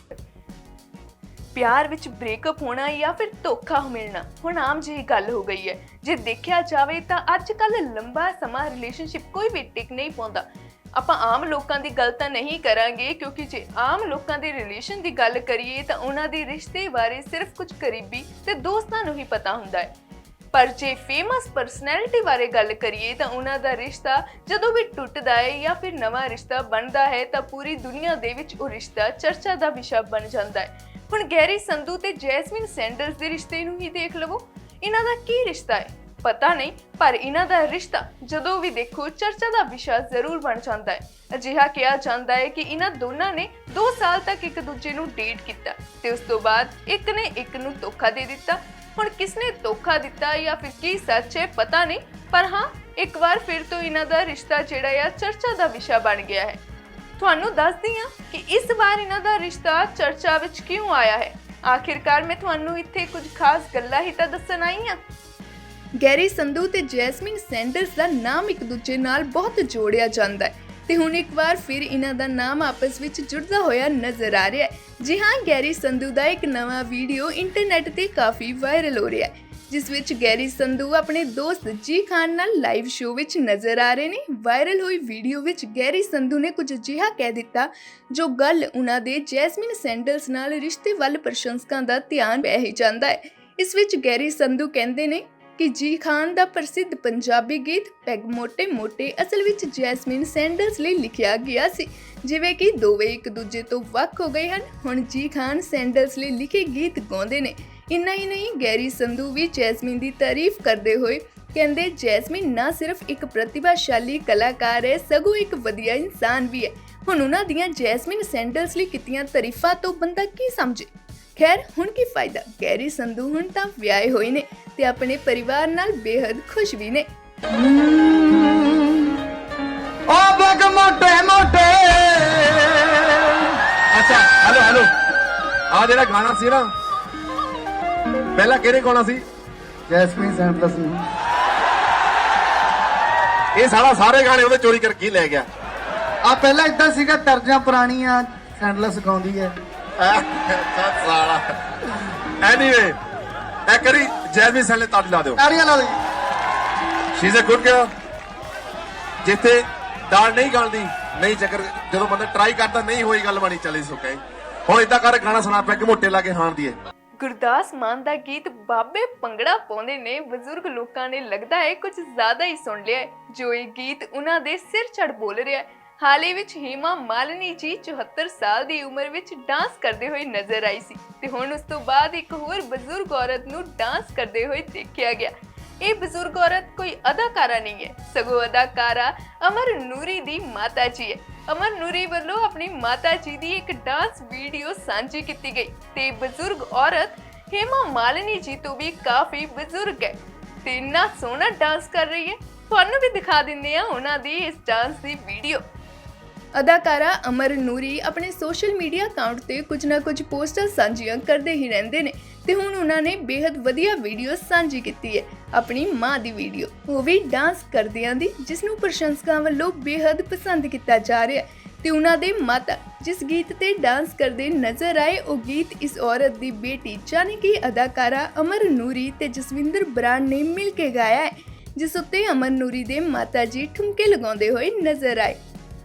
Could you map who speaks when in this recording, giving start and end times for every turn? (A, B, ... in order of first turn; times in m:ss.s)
0:01.5-0:10.4 A
0:11.0-0:19.9 A
0:20.5-0:56.6 A
0:57.2-1:05.0 A
1:06.0-2:07.1 A
2:07.6-2:08.8 B
2:10.1-2:13.6 B
2:13.9-2:14.9 C
2:15.7-2:16.7 C
2:18.4-2:19.2 C
2:19.9-2:21.0 B
2:23.6-2:25.5 C
2:26.2-2:29.6 B
2:30.0-2:31.6 C
2:32.4-2:33.0 C
2:33.7-2:35.4 C
2:35.4-2:36.0 B
2:37.2-2:37.9 C
2:39.2-2:46.8 C
2:47.2-3:25.6 A
3:26.6-3:55.4 A